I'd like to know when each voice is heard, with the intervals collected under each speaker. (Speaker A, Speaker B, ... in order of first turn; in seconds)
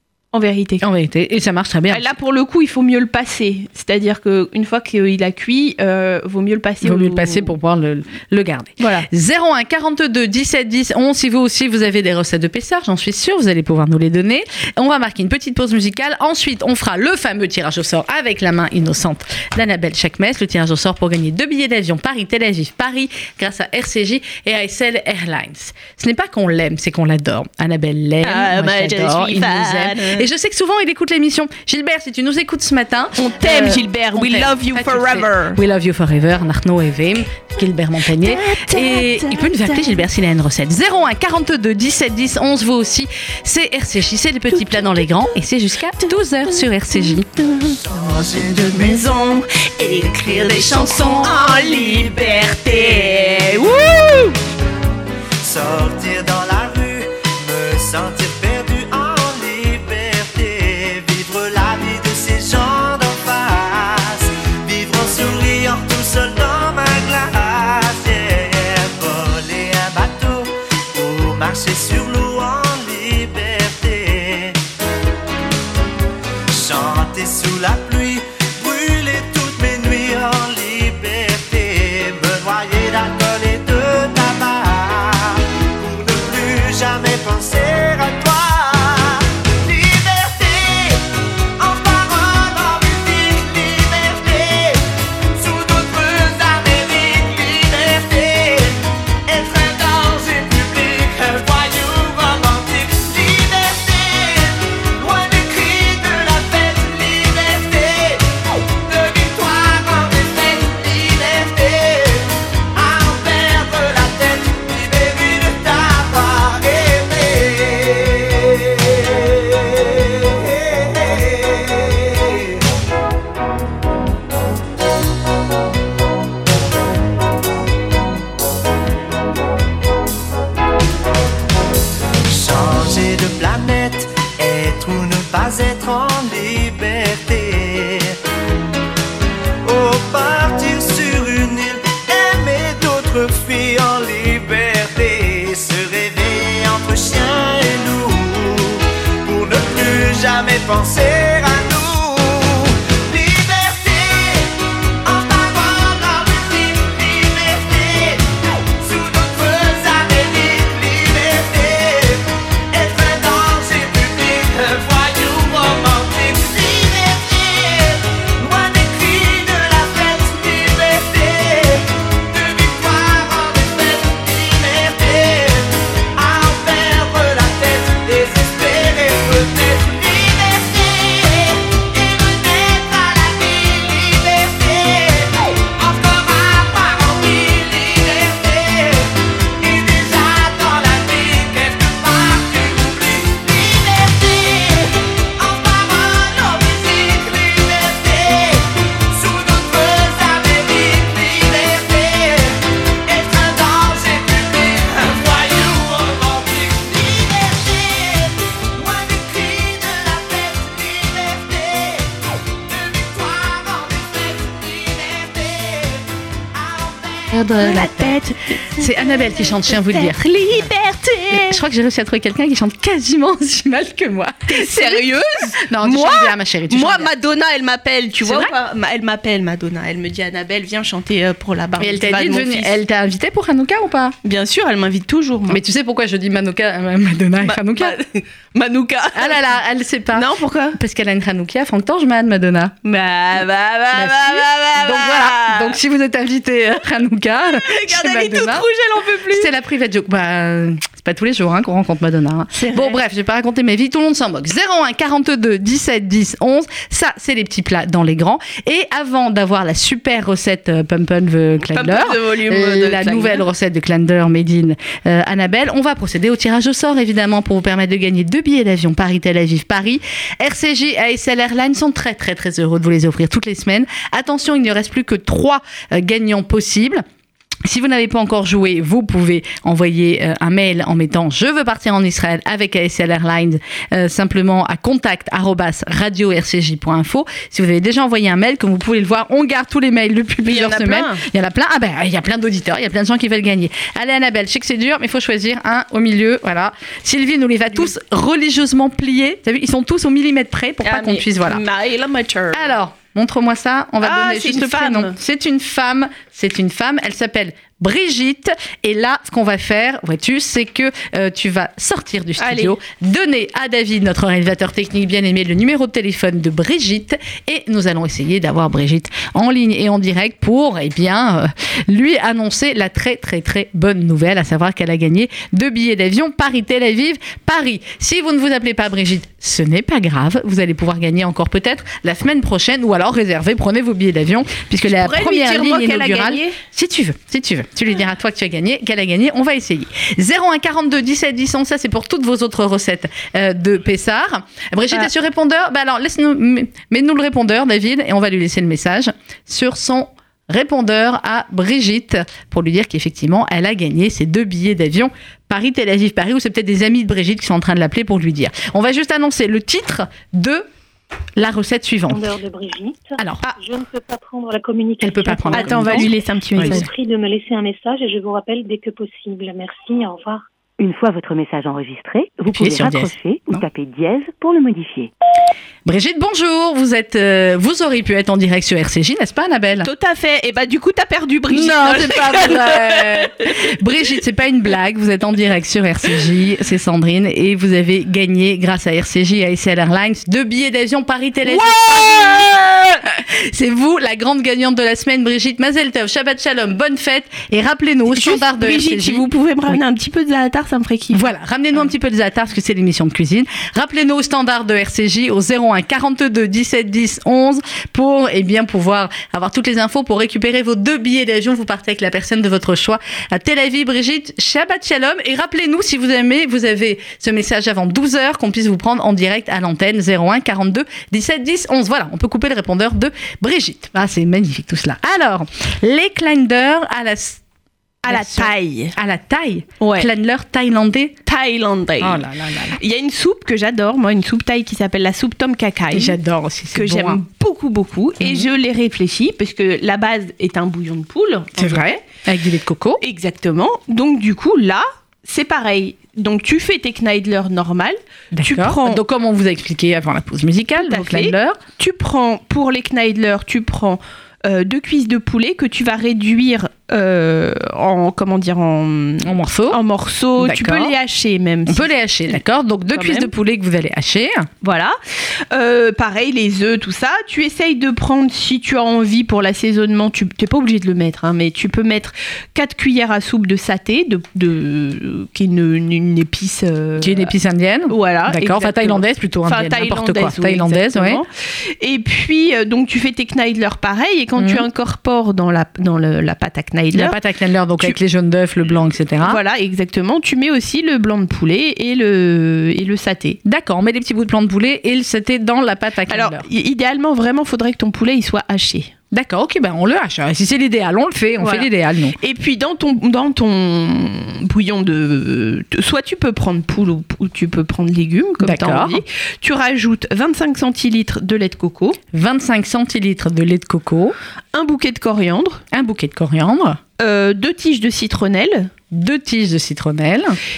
Speaker A: 0.3-0.8, 1.9-7.5, 8.8-9.1, 28.2-30.3, 33.2-35.6, 38.2-40.0, 44.5-45.0, 46.0-54.4, 217.5-221.6, 224.5-232.8, 234.2-235.6, 237.4-239.4, 240.1-240.8, 242.8-245.8, 247.5-249.5, 252.5-253.0, 261.7-263.4, 290.4-291.2, 300.8-302.7, 304.0-305.2, 312.4-312.8, 334.9-336.6, 365.5-366.9, 379.8-383.3, 391.5-392.5, 398.1-401.3, 428.0-428.9, 429.8-430.1, 431.2-436.2, 436.7-442.0, 443.0-449.0, 450.8-461.9, 462.9-463.3, 464.6-464.9, 465.5-477.3, 477.9-481.3, 481.8-487.2, 489.2-493.4, 496.1-498.9, 501.4-512.0, 514.5-515.6, 517.0-518.7
Speaker B: 0.8-2.1, 6.8-47.3, 217.3-218.2, 218.7-220.2, 221.3-227.1, 228.2-228.5, 231.8-234.2, 235.5-238.0, 239.1-242.7, 243.9-248.7, 249.3-277.0, 277.6-301.6, 302.5-360.7, 361.4-362.3, 363.2-363.5, 365.0-366.9, 372.5-373.6, 375.8-379.9, 381.5-399.8, 401.1-427.4, 428.1-431.1, 432.0-432.8, 435.9-437.2, 438.2-438.5, 441.6-443.0, 448.3-451.6, 459.2-459.8, 460.4-460.9, 461.7-464.5, 477.0-481.2, 484.4-484.6, 486.9-489.4, 493.4-496.4, 499.1-502.2, 508.4-509.0, 512.1-514.1, 515.7-516.8, 518.9-520.4
Speaker C: 47.6-49.1, 50.0-53.6, 55.4-74.6, 76.5-122.6, 132.2-138.2, 139.6-217.5
Speaker D: 362.1-370.5
Speaker E: 370.8-375.1